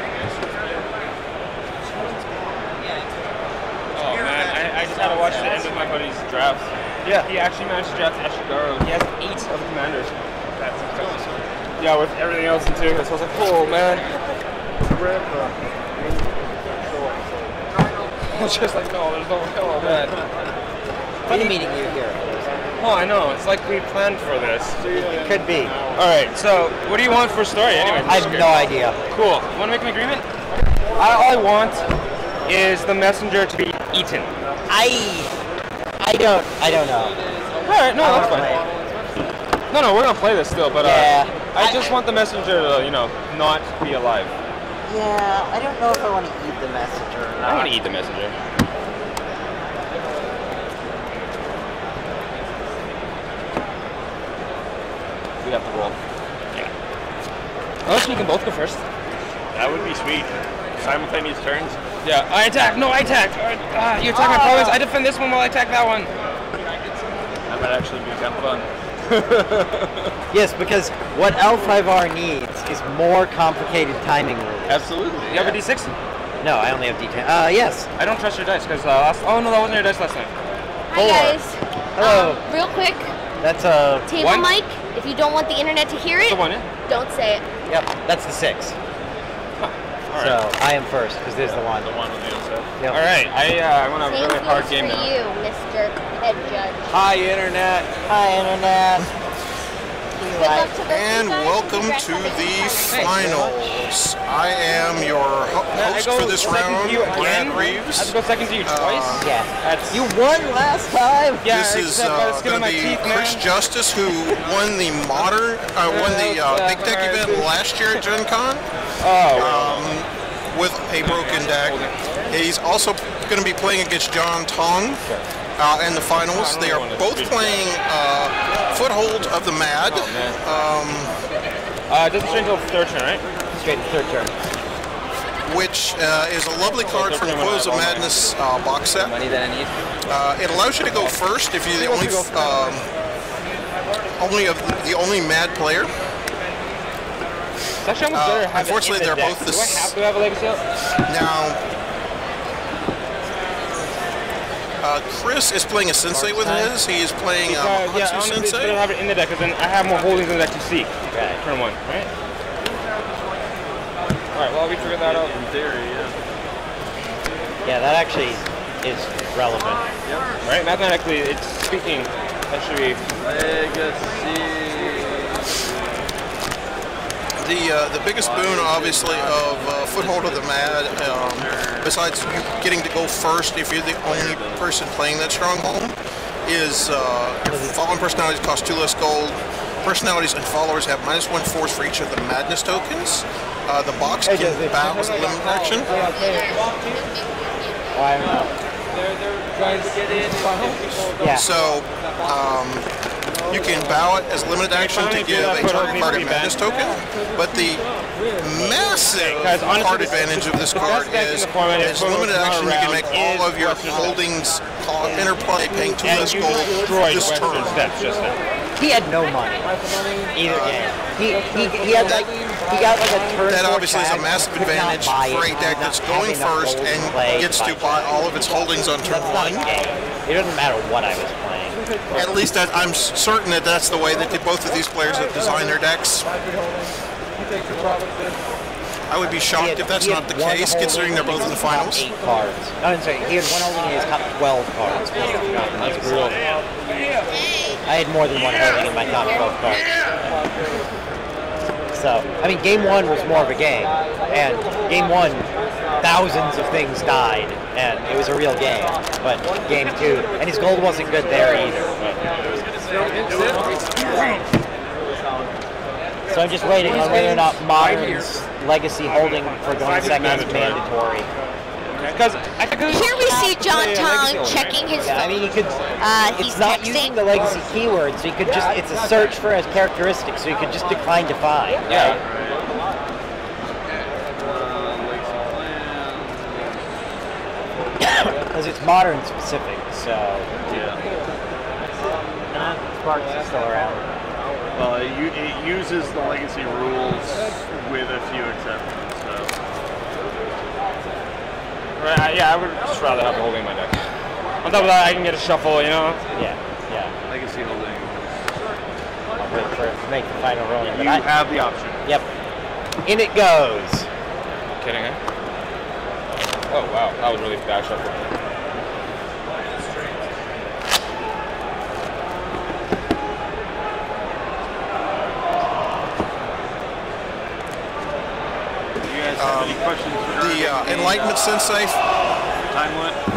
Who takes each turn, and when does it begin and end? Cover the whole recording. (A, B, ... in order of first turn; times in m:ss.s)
0:03.9-0:10.1 A
0:10.6-0:11.2 B
0:11.8-0:14.0 A
0:15.0-0:15.5 B
0:18.3-0:20.2 A
0:21.2-0:22.5 C
0:21.3-0:21.5 A
0:22.8-0:24.8 A
0:24.8-0:26.0 B
0:24.9-0:25.7 C
0:25.9-0:30.2 A
0:27.7-0:28.6 B
0:28.0-0:29.0 C
0:31.0-0:31.9 A
0:32.4-0:34.3 A
0:34.7-0:35.3 C
0:36.0-0:37.2 C
0:37.6-0:38.6 A
0:38.0-0:38.7 C
0:39.7-0:44.3 A
0:40.8-0:41.9 C
0:44.8-0:47.8 C
0:47.4-0:48.3 A
0:55.4-0:56.0 A
0:57.8-0:58.8 A
0:59.5-1:01.8 B
1:02.0-1:06.1 A
1:04.1-1:04.8 B
1:07.5-1:10.1 B
1:10.3-1:15.6 C
1:14.7-1:15.4 B
1:15.3-1:15.9 A
1:16.4-1:17.9 C
1:18.0-1:20.3 A
1:20.9-1:23.1 D
1:20.9-1:21.4 C
1:22.0-1:22.4 C
1:23.4-1:24.1 C
1:24.1-1:27.4 D
1:24.2-1:24.5 A
1:26.3-1:26.7 A
1:27.7-1:28.7 C
1:29.6-1:30.4 A
1:30.1-1:31.9 C
1:31.4-1:32.7 B
1:32.9-1:35.1 A
1:34.1-1:36.8 D
1:36.9-1:37.9 B
1:38.1-1:39.0 C
1:40.2-1:40.7 C
1:40.2-1:43.0 D
1:40.8-1:49.3 E
1:42.9-1:43.9 C
1:45.7-1:50.0 A
1:49.2-1:51.5 C
1:51.4-1:53.4 A
1:51.4-1:58.6 E
1:55.8-1:57.5 A
1:59.0-2:00.0 A
1:59.3-2:05.0 E
2:01.0-2:02.2 A
2:05.6-2:11.1 E
2:06.3-2:07.7 A
2:09.9-2:10.4 A
2:11.9-2:13.2 A
2:13.5-2:14.3 C
2:15.4-2:19.1 E
2:16.9-2:18.2 A
2:19.0-2:19.7 A
2:20.1-2:22.8 E
2:20.9-2:21.2 A
2:21.8-2:22.7 A
2:24.2-2:25.9 E
2:27.8-2:30.6 A
2:28.1-2:29.9 E
2:31.1-2:31.6 E
2:34.8-2:38.8 E
2:36.1-2:36.8 C
2:37.4-2:42.1 A
2:41.1-2:41.4 C
2:44.3-2:45.4 A
2:44.8-2:46.2 B
2:47.7-2:49.9 C
2:50.4-2:53.0 A
2:53.2-2:55.7 B
2:57.4-3:05.9 E
2:58.2-3:02.1 B
3:04.0-3:04.7 B
3:06.4-3:15.9 E
3:07.5-3:07.8 C
3:14.2-3:15.3 C
3:14.8-3:16.5 A
3:17.9-3:18.5 C
3:19.6-3:20.8 A
3:21.2-3:21.4 C
3:21.3-3:22.9 E
3:23.5-3:27.8 E
3:24.8-3:27.0 A
3:28.4-3:37.8 E
3:28.5-3:34.2 A
3:36.0-3:38.4 A
3:38.8-3:39.7 C
3:40.3-3:51.8 C
3:40.4-3:40.9 E
3:42.0-3:42.2 E
3:43.4-3:49.7 E
3:52.1-3:56.3 E
3:59.1-4:02.0 E
3:59.5-4:06.3 C
4:05.8-4:06.4 A
4:07.8-4:09.9 C
4:11.9-4:15.5 C
4:16.0-4:21.9 C
4:21.2-4:22.2 A
4:23.2-4:24.1 B
4:26.3-4:31.3 C
4:26.8-4:28.1 B
4:29.8-4:30.8 A
4:32.0-4:34.8 A
4:32.9-4:35.5 D
4:35.0-4:42.2 C
4:36.0-4:37.2 D
4:41.9-4:42.2 A
4:42.2-4:42.7 B
4:44.4-4:46.8 B
4:48.0-4:50.5 C
4:50.7-4:51.0 B
4:52.5-4:54.1 C
4:54.7-4:59.5 B
5:02.0-5:04.0 A
5:04.6-5:06.2 A
5:06.3-5:07.1 C
5:07.3-5:08.2 B
5:09.4-5:11.3 C
5:10.8-5:12.0 B
5:13.0-5:14.1 C
5:14.8-5:15.2 A
5:16.7-5:18.2 A
5:29.0-5:31.8 B
5:29.4-5:32.0 E
5:32.7-5:33.2 B